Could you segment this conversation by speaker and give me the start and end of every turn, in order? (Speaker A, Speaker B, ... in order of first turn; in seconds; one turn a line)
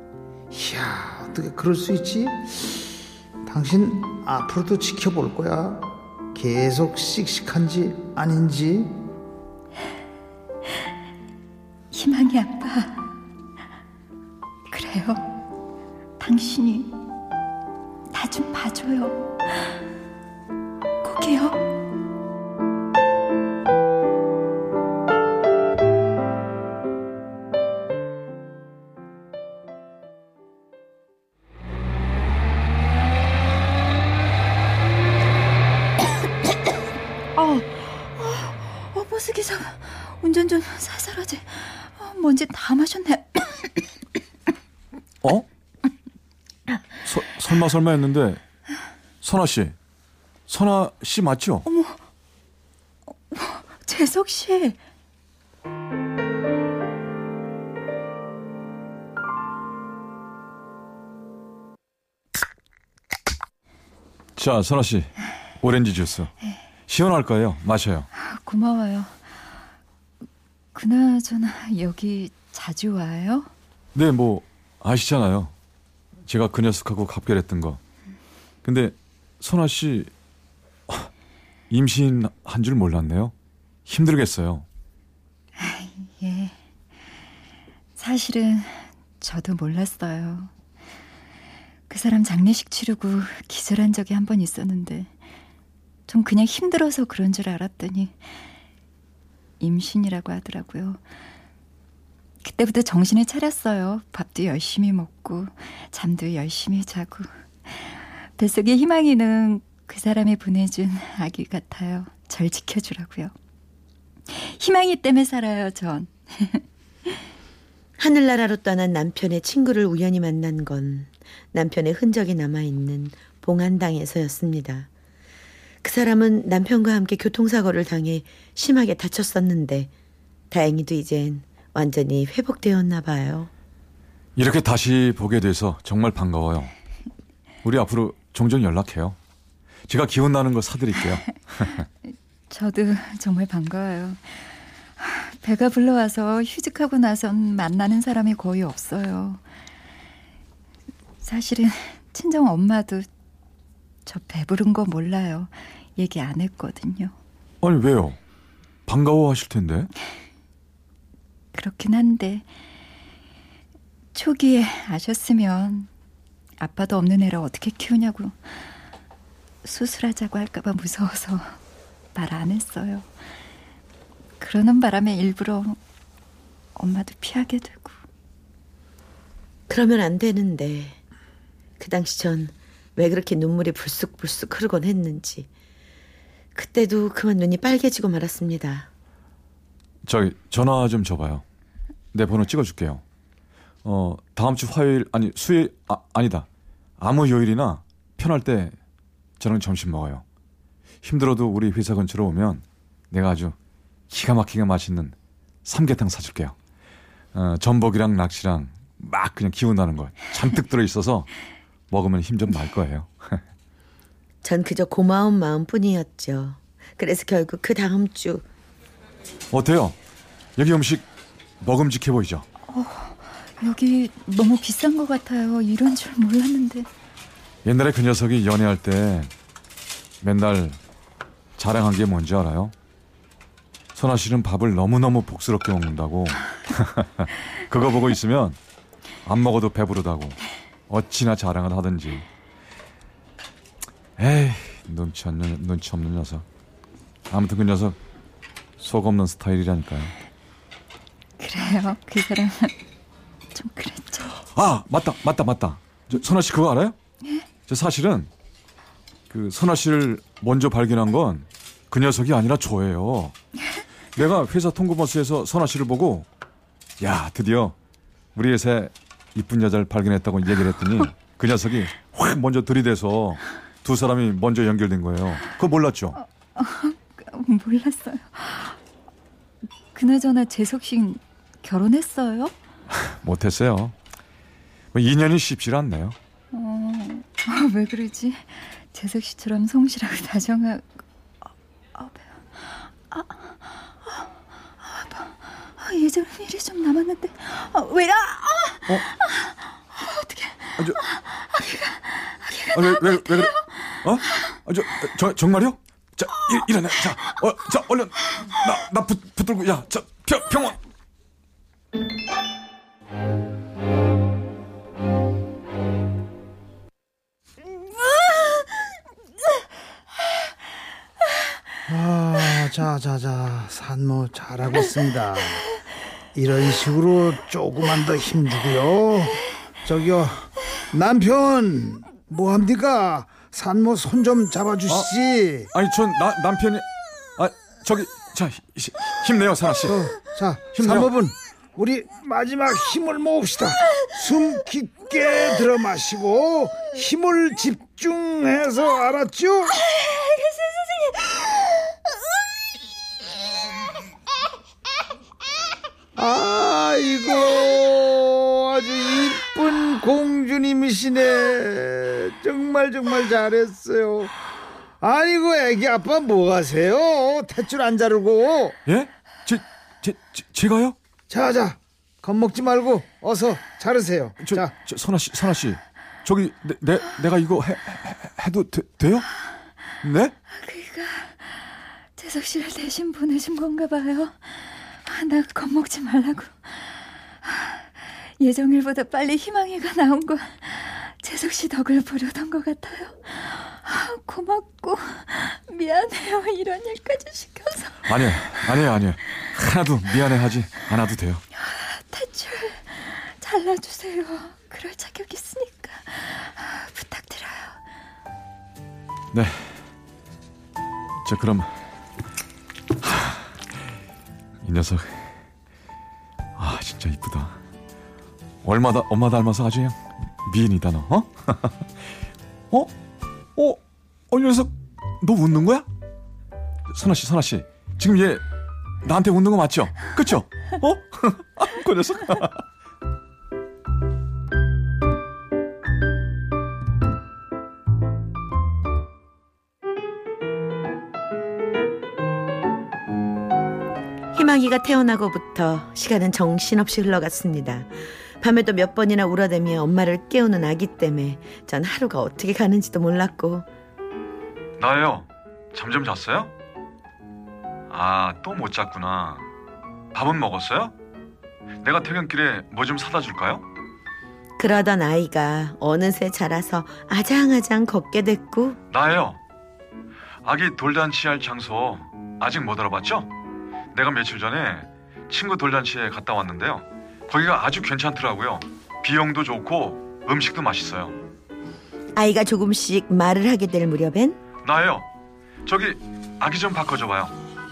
Speaker A: 0.5-2.8
Speaker A: 3.5-9.0
Speaker B: 11.9-13.0
Speaker B: 14.7-15.2
Speaker B: 16.2-16.9
Speaker B: 18.1-19.8
Speaker B: 21.0-21.7
Speaker B: 37.4-43.7
Speaker C: 47.0-48.4
Speaker C: 49.2-49.8
Speaker C: 50.5-51.6
Speaker B: 51.7-52.0
Speaker B: 53.3-54.8
Speaker C: 64.4-66.3
Speaker C: 66.9-68.1
Speaker B: 68.1-69.1
Speaker B: 70.7-73.5
Speaker C: 74.0-75.5
Speaker C: 76.3-77.8
Speaker C: 78.7-80.1
Speaker C: 81.7-83.3
Speaker C: 83.9-84.7
Speaker B: 85.6-86.5
Speaker B: 88.0-90.5
Speaker B: 91.9-95.1
Speaker B: 96.1-98.2
Speaker B: 99.6-101.0
Speaker B: 102.4-113.3
Speaker B: 114.3-117.2
Speaker D: 118.0-124.9
Speaker D: 125.8-129.9
Speaker D: 130.5-133.5
Speaker C: 134.4-136.7
Speaker C: 137.6-139.2
Speaker C: 139.9-141.9
Speaker B: 142.5-149.4
Speaker B: 151.2-153.1
Speaker B: 154.1-157.1
Speaker C: 157.6-158.2
Speaker C: 158.9-159.9
Speaker B: 161.5-162.5
Speaker B: 164.1-165.9
Speaker B: 166.6-168.6
Speaker B: 169.6-171.6
Speaker B: 172.2-173.1
Speaker B: 174.4-175.8
Speaker B: 176.8-177.9
Speaker D: 179.7-181.0
Speaker D: 181.8-185.5
Speaker D: 186.6-188.9
Speaker C: 190.1-191.4
Speaker C: 192.1-193.0
Speaker C: 193.8-196.5
Speaker C: 197.0-198.8
Speaker C: 199.4-200.2
Speaker C: 201.0-203.6
Speaker C: 204.1-206.6
Speaker C: 207.3-211.3
Speaker C: 211.9-213.4
Speaker D: 214.4-218.4
Speaker C: 219.5-220.0
Speaker C: 220.6-221.1
Speaker C: 221.6-222.5
Speaker B: 222.7-226.9
Speaker C: 227.7-229.3
Speaker C: 230.2-230.8
Speaker C: 231.6-232.7
Speaker C: 233.9-238.6
Speaker C: 239.3-240.4
Speaker C: 240.9-242.3
Speaker C: 244.2-246.4
Speaker C: 247.3-248.0
Speaker C: 248.8-250.1
Speaker B: 251.4-252.7
Speaker B: 253.5-254.4
Speaker C: 254.5-257.0
Speaker C: 257.7-258.3
Speaker C: 259.3-263.3
Speaker C: 264.2-266.3
Speaker C: 267.0-267.8
Speaker C: 268.4-276.2
Speaker B: 276.2-278.8
Speaker B: 279.9-282.5
Speaker C: 283.1-283.9
Speaker C: 284.9-286.2
Speaker B: 286.5-290.9
Speaker B: 291.9-294.3
Speaker B: 294.8-304.3
Speaker C: 302.7-310.8
Speaker A: 321.9-325.6
Speaker A: 326.4-335.7
Speaker C: 335.7-336.8
Speaker C: 337.4-340.1
Speaker A: 339.9-349.8
Speaker C: 340.8-341.1
Speaker A: 356.2-364.3
Speaker A: 365.0-368.8
Speaker C: 368.9-370.9
Speaker A: 371.3-374.7
Speaker C: 374.4-379.3
Speaker C: 380.0-380.4
Speaker B: 380.5-398.1
Speaker C: 398.1-401.4
Speaker B: 401.6-407.8
Speaker C: 409.3-409.8
Speaker C: 411.2-411.7
Speaker C: 413.0-413.4
Speaker C: 414.6-415.3
Speaker C: 416.6-417.6
Speaker C: 418.6-421.9
Speaker C: 424.3-425.9
Speaker C: 426.9-428.4
Speaker C: 429.0-432.6
Speaker D: 444.3-453.7
Speaker C: 454.8-456.5
Speaker C: 457.9-459.4
Speaker C: 460.1-460.9
Speaker C: 461.8-463.6
Speaker D: 464.6-468.8
Speaker C: 468.9-469.4
Speaker C: 470.4-473.3
Speaker C: 473.9-481.2
Speaker D: 482.2-484.4
Speaker C: 484.6-485.1
Speaker C: 485.6-487.3